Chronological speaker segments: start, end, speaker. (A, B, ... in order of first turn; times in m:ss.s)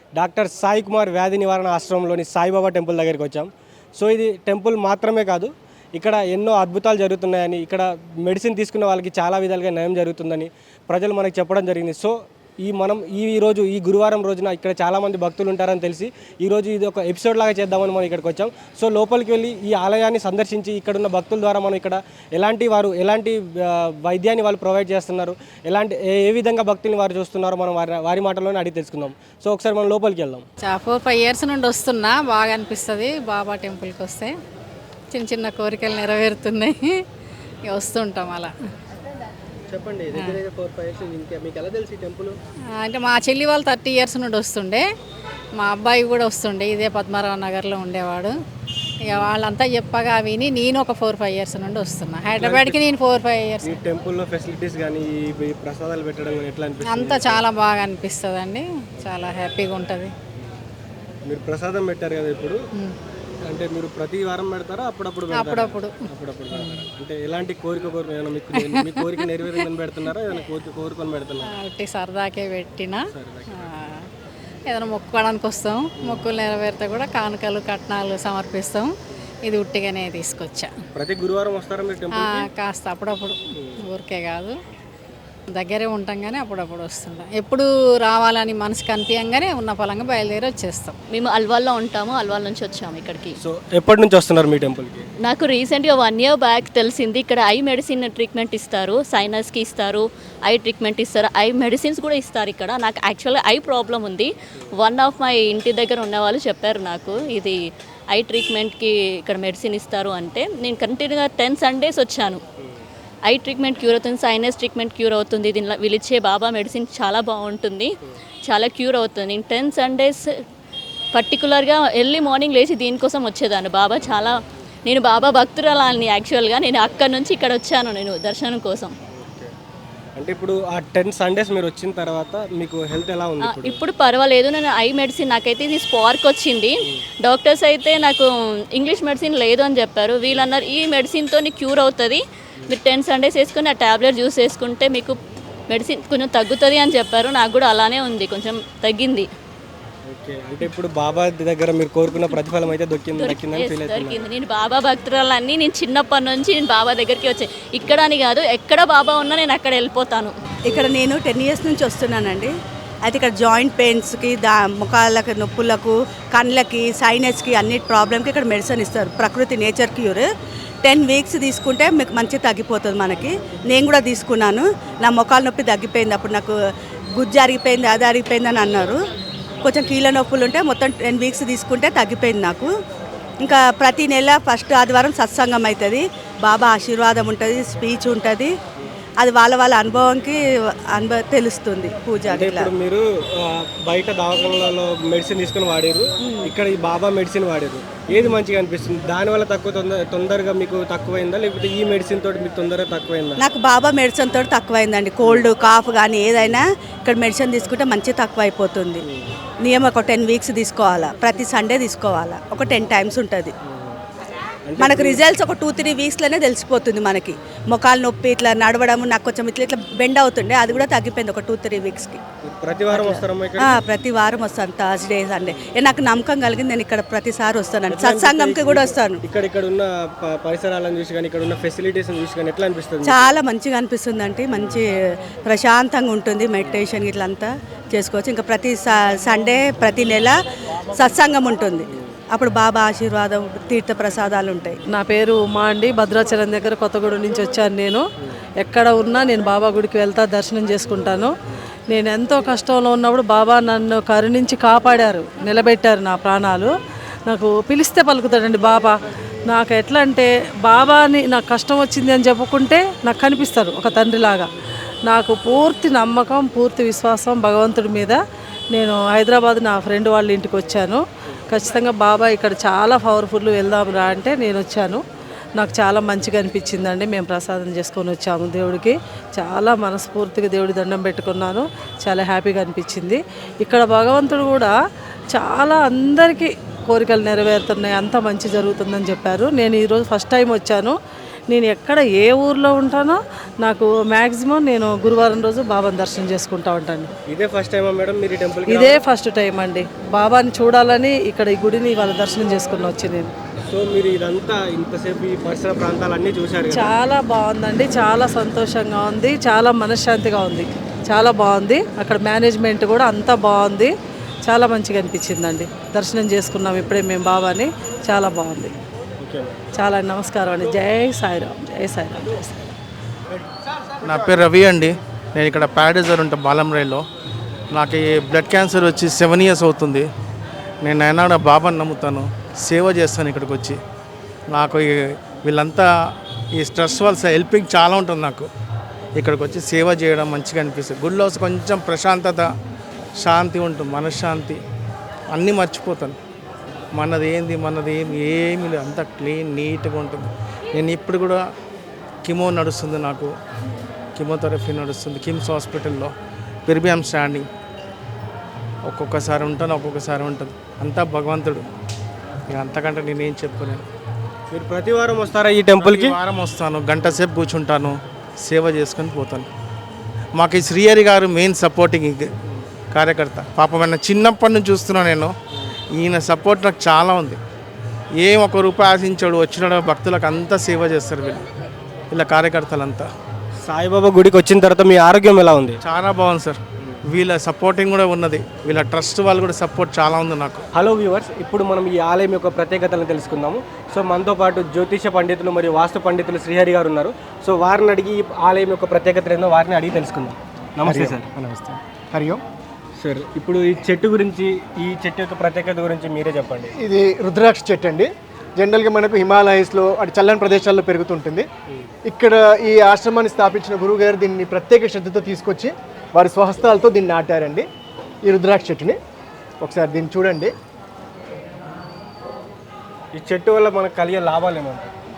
0:00.2-0:30.4 A
0:30.6-0:34.3 B
0:35.1-0:36.8 B
0:37.7-0:38.5 B
0:39.7-0:42.4 A
0:40.1-0:40.4 B
0:42.8-0:44.8 B
0:45.6-0:48.3 B
0:49.1-0:53.8 B
0:52.4-0:52.8 A
0:53.6-0:57.5 A
0:56.8-1:00.1 B
1:01.3-1:02.6 A
1:03.5-1:11.5 A
1:05.3-1:05.9 B
1:06.5-1:06.9 B
1:08.5-1:09.6 B
1:11.4-1:14.0 B
1:13.1-1:13.7 A
1:14.7-1:18.9 B
1:16.0-1:16.3 A
1:19.4-1:20.7 B
1:21.0-1:22.5 A
1:22.1-1:24.5 B
1:25.5-1:31.0 B
1:31.1-1:33.4 C
1:33.4-1:35.1 A
1:35.3-1:47.6 C
1:48.1-1:52.4 C
1:53.3-1:57.9 C
1:58.5-2:00.2 C
2:01.1-2:08.9 C
2:09.2-2:09.5 A
2:10.2-2:13.8 A
2:13.4-2:16.7 C
2:17.2-2:25.2 C
2:25.7-2:29.3 C
2:30.1-2:34.2 A
2:33.2-2:40.3 C
2:40.7-2:42.5 D
2:43.0-2:50.3 D
2:50.8-2:56.5 D
2:57.2-2:59.0 D
2:59.6-3:02.7 D
3:03.4-3:08.5 D
3:09.2-3:12.7 D
3:12.3-3:23.4 A
3:16.2-3:16.5 D
3:23.4-3:29.0 D
3:25.2-3:25.5 A
3:29.0-3:29.4 A
3:29.6-3:33.5 D
3:33.7-3:34.0 A
3:34.7-3:35.2 A
3:34.8-3:42.2 D
3:42.4-3:43.8 A
3:42.9-3:49.2 D
3:47.9-3:53.4 A
3:53.0-3:54.9 D
3:54.5-3:54.8 A
3:55.5-4:00.4 D
4:00.9-4:04.8 D
4:04.9-4:08.0 E
4:08.6-4:11.3 E
4:11.9-4:16.7 E
4:17.3-4:19.0 E
4:19.5-4:24.5 E
4:25.1-4:28.2 E
4:28.7-4:35.0 E
4:35.6-4:44.8 E
4:45.3-4:51.0 E
4:51.5-4:57.1 E
4:57.3-4:59.0 A
4:58.7-5:03.3 E
5:03.7-5:07.0 A
5:06.7-5:13.9 E
5:14.5-5:18.8 E
5:19.2-5:19.6 A
5:19.8-5:22.7 E
5:24.0-5:27.0 D
5:27.7-5:30.0 D
5:30.8-5:33.8 D
5:34.6-5:34.9 D
5:35.4-5:35.9 D
5:36.6-5:38.5 D
5:39.2-5:42.4 D
5:43.3-5:44.6 D
5:45.4-5:46.1 D
5:47.0-5:51.4 D
5:52.3-5:53.3 D
5:54.2-5:56.1 D
5:56.7-5:57.4 D
5:58.9-6:01.6 D
6:02.5-6:03.8 D
6:04.5-6:06.2 A
6:06.2-6:09.5 D
6:10.4-6:12.2 D
6:13.0-6:15.3 D
6:16.0-6:17.4 D
6:18.2-6:21.4 D
6:22.1-6:23.1 D
6:23.6-6:25.8 A
6:25.9-6:26.6 D
6:27.1-6:30.6 D
6:30.8-6:41.8 A
6:42.1-6:42.4 F
6:43.0-6:46.7 A
6:46.8-6:51.5 F
6:52.1-6:57.7 F
6:58.2-6:59.0 F
6:59.6-7:00.5 F
7:03.1-7:04.9 A